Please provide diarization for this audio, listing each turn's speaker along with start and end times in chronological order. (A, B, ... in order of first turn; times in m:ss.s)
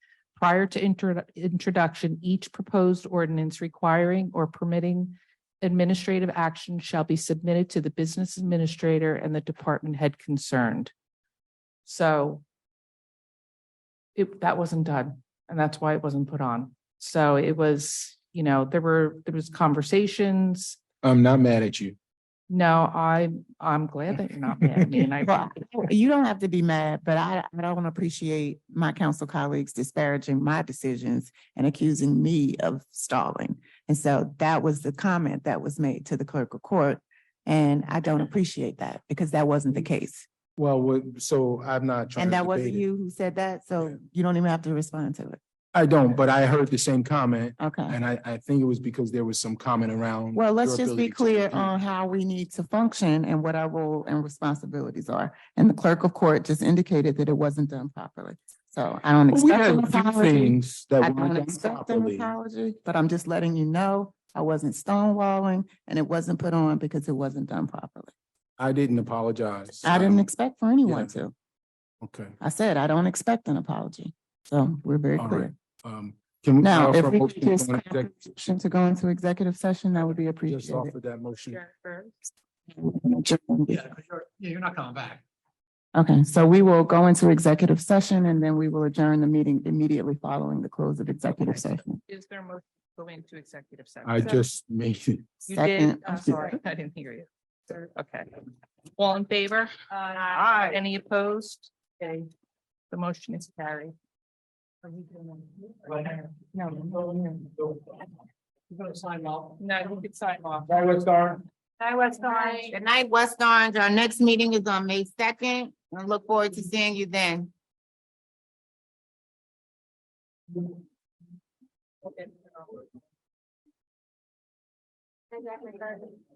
0:00.4-0:10.9 A
0:11.8-0:12.4 A
0:14.1-0:20.8 A
0:21.0-0:22.0 B
0:22.5-0:25.6 A
0:25.2-0:40.2 C
0:40.6-0:42.8 B
0:42.2-0:45.4 C
0:45.7-0:51.7 B
0:47.6-0:48.0 C
0:50.3-1:08.1 C
0:59.3-1:02.3 B
1:08.6-1:10.2 B
1:09.8-1:11.3 C
1:10.9-1:11.1 B
1:12.0-1:12.4 B
1:12.4-1:15.6 C
1:15.2-1:18.1 B
1:16.6-1:20.9 C
1:20.4-1:21.6 B
1:21.5-1:22.2 A
1:22.7-1:23.8 C
1:23.7-1:25.2 D
1:26.0-1:32.0 C
1:32.1-1:34.4 A
1:34.0-1:35.3 B
1:35.5-1:36.6 C
1:35.5-1:38.3 A
1:39.0-1:42.3 A
1:42.9-1:44.0 A
1:44.8-1:46.3 A
1:46.6-1:47.0 C
1:48.7-1:49.6 D
1:49.6-1:50.8 A
1:51.0-1:51.4 B
1:51.8-1:52.7 A
1:52.1-1:57.5 C